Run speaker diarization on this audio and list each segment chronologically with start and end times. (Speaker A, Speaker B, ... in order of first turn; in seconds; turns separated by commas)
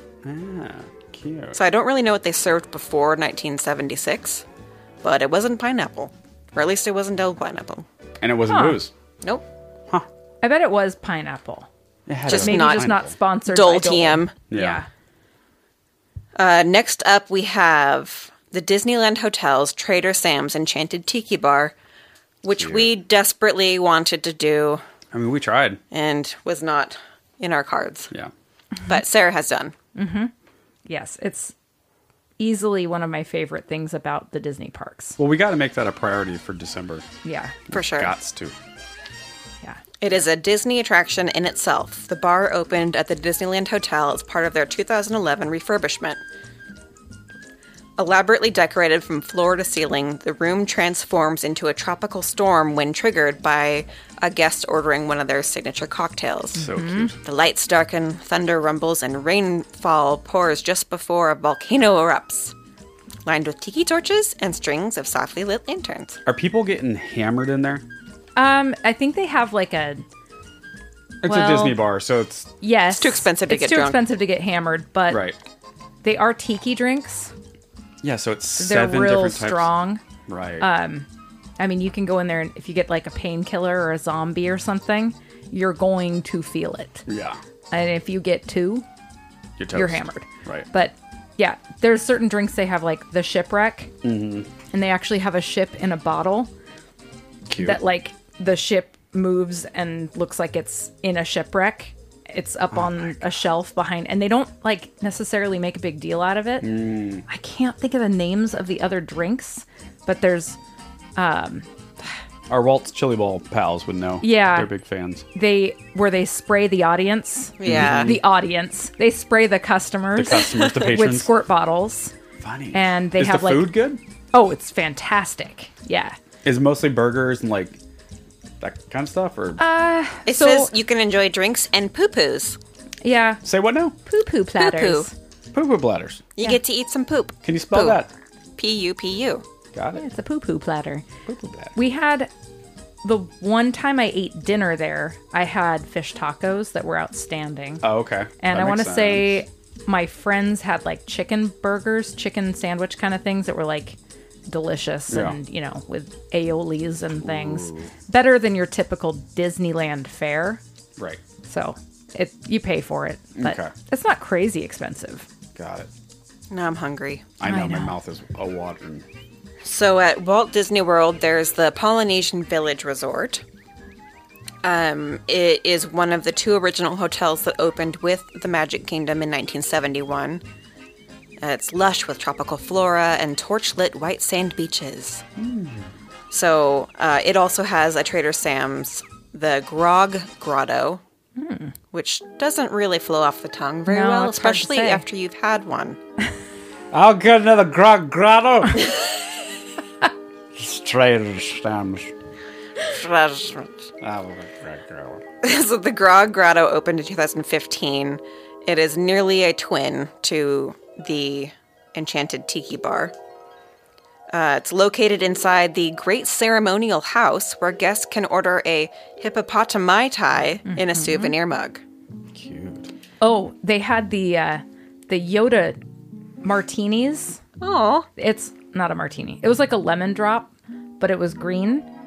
Speaker A: 0.2-1.6, Speaker B: 1.6-4.4, Speaker B: 5.0-7.9, Speaker A: 8.2-8.9, Speaker C: 8.5-8.8, Speaker C: 10.4-11.7, Speaker A: 12.1-13.1, Speaker B: 12.3-14.4, Speaker C: 12.3-14.9, Speaker A: 14.5-14.8, Speaker B: 16.4-21.7, Speaker B: 22.4-24.8, Speaker A: 22.6-22.9, Speaker A: 25.1-25.8, Speaker B: 25.9-28.1, Speaker B: 28.9-29.7, Speaker C: 29.9-30.3, Speaker C: 30.9-31.5, Speaker C: 32.4-35.2, Speaker A: 35.2-37.1, Speaker C: 37.2-37.6, Speaker A: 37.7-38.5, Speaker B: 37.7-38.1, Speaker B: 40.0-46.2, Speaker B: 48.0-56.7, Speaker A: 56.5-57.1, Speaker C: 56.6-57.1, Speaker B: 57.2-62.5, Speaker B: 63.2-66.2, Speaker A: 66.3-67.8, Speaker C: 68.4-70.0, Speaker A: 71.2-72.5, Speaker C: 71.2-71.8, Speaker C: 72.6-75.3, Speaker B: 73.0-74.0, Speaker A: 75.1-75.4, Speaker C: 76.0-77.3, Speaker A: 78.0-79.7, Speaker C: 78.6-80.0, Speaker A: 80.3-80.7, Speaker C: 80.6-81.1, Speaker C: 81.6-87.1, Speaker A: 87.1-87.4, Speaker C: 87.7-88.8, Speaker A: 89.6-90.7, Speaker C: 89.7-94.0, Speaker A: 94.0-94.5, Speaker C: 94.7-96.5, Speaker A: 97.5-97.8, Speaker C: 97.6-110.6, Speaker A: 102.7-103.2, Speaker A: 106.6-107.2, Speaker C: 111.2-111.7, Speaker A: 112.5-115.2, Speaker C: 114.2-114.7, Speaker C: 115.3-122.1, Speaker B: 117.6-118.2, Speaker A: 117.6-118.2, Speaker A: 120.2-121.3, Speaker B: 120.4-120.9, Speaker A: 122.4-124.0, Speaker C: 122.7-123.8, Speaker C: 124.3-126.2, Speaker A: 126.4-127.8, Speaker A: 128.6-129.6, Speaker C: 129.6-130.7, Speaker B: 130.3-132.6, Speaker C: 133.0-133.4, Speaker A: 133.4-134.0, Speaker C: 134.1-135.1, Speaker B: 134.6-135.1, Speaker A: 135.5-136.2, Speaker B: 136.4-138.0, Speaker A: 137.4-138.1, Speaker B: 138.6-139.4, Speaker A: 139.7-140.0, Speaker C: 140.0-141.1, Speaker A: 141.2-141.8, Speaker C: 141.8-142.3, Speaker C: 143.0-147.9, Speaker A: 147.8-149.4, Speaker C: 148.4-154.0, Speaker C: 154.5-160.6, Speaker A: 155.1-155.4, Speaker A: 157.2-157.9, Speaker C: 161.4-165.3, Speaker A: 163.4-163.7, Speaker A: 165.6-165.9, Speaker B: 166.5-167.3, Speaker A: 167.4-169.1, Speaker C: 167.4-167.9, Speaker B: 169.6-173.4, Speaker B: 174.6-180.4, Speaker B: 181.4-185.2, Speaker A: 185.4-185.9, Speaker B: 186.3-191.0, Speaker C: 191.4-191.7, Speaker B: 191.9-196.0, Speaker C: 193.9-195.1, Speaker A: 196.9-199.0, Speaker A: 200.5-202.1, Speaker B: 202.8-203.7, Speaker A: 204.0-205.2, Speaker B: 205.4-213.1, Speaker B: 214.3-221.8, Speaker C: 220.7-221.3, Speaker A: 222.3-222.9, Speaker C: 223.2-225.8, Speaker C: 226.4-227.4, Speaker B: 227.6-228.1, Speaker C: 228.2-231.9